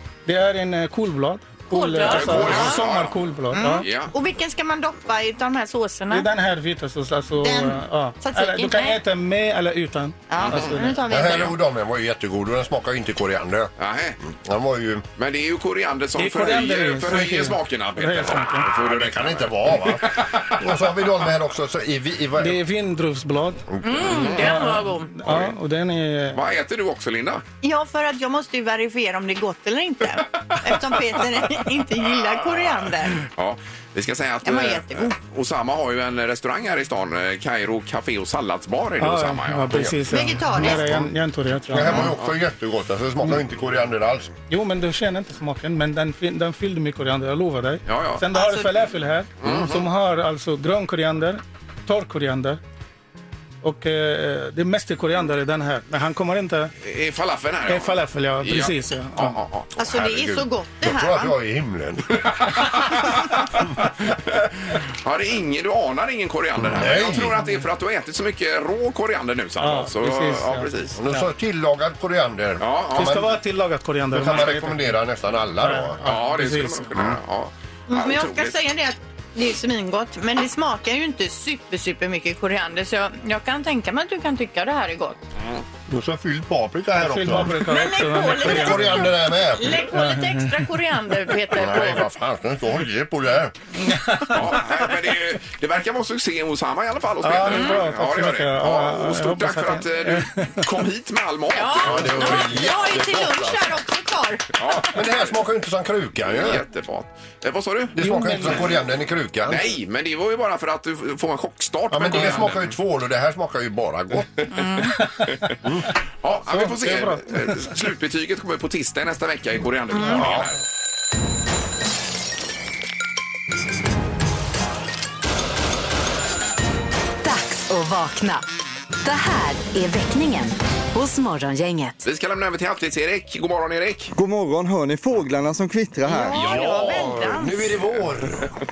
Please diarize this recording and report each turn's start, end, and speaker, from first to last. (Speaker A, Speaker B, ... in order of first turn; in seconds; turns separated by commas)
Speaker A: 0.2-3.9, Speaker B: 1.7-2.8, Speaker C: 2.0-4.1, Speaker B: 3.5-6.3, Speaker A: 6.1-11.0, Speaker B: 7.4-9.0, Speaker B: 10.3-11.6, Speaker C: 10.5-11.3, Speaker D: 11.1-13.7, Speaker C: 13.8-14.2, Speaker D: 14.3-15.0, Speaker C: 15.2-20.4, Speaker A: 16.1-18.7, Speaker D: 18.6-22.6, Speaker A: 22.4-23.6, Speaker D: 23.7-24.0, Speaker B: 23.8-25.1, Speaker C: 24.1-24.5, Speaker A: 24.3-26.4, Speaker C: 26.3-27.4, Speaker B: 27.6-33.2, Speaker C: 33.2-39.9, Speaker B: 34.4-35.1, Speaker A: 39.0-42.1, Speaker B: 40.1-40.9, Speaker D: 40.5-41.1, Speaker D: 41.7-44.3, Speaker A: 44.5-52.6, Speaker C: 47.9-48.2, Speaker B: 48.3-48.8, Speaker C: 49.4-49.9, Speaker A: 53.6-56.7, Speaker C: 56.8-59.7, Speaker A: 57.7-59.4, Speaker B: 59.8-61.3, Speaker D: 59.8-62.8, Speaker C: 62.6-63.0, Speaker C: 65.0-70.9, Speaker D: 66.6-67.4, Speaker A: 69.6-71.2, Speaker D: 71.0-73.4, Speaker C: 72.6-73.2, Speaker A: 72.9-74.9, Speaker D: 74.1-76.0, Speaker A: 75.6-77.1, Speaker C: 76.0-78.5, Speaker B: 77.9-85.2, Speaker D: 85.9-87.6, Speaker A: 87.0-89.0, Speaker B: 87.7-92.0, Speaker D: 88.3-89.8, Speaker A: 90.0-90.6, Speaker D: 91.5-93.5, Speaker A: 93.9-94.3, Speaker C: 94.2-102.7, Speaker A: 97.2-100.7, Speaker B: 101.5-104.4, Speaker D: 101.8-103.7, Speaker C: 104.6-105.4, Speaker D: 104.9-106.6, Speaker C: 106.2-108.7, Speaker D: 108.0-109.7, Speaker A: 108.0-108.4, Speaker C: 109.4-112.7, Speaker D: 111.9-114.3, Speaker B: 114.5-114.8, Speaker C: 116.2-120.6, Speaker A: 116.5-117.5, Speaker B: 120.0-120.2, Speaker E: 127.2-128.4, Speaker E: 129.0-132.0, Speaker C: 132.0-134.1, Speaker F: 134.1-136.3, Speaker B: 136.1-137.8, Speaker D: 136.3-138.5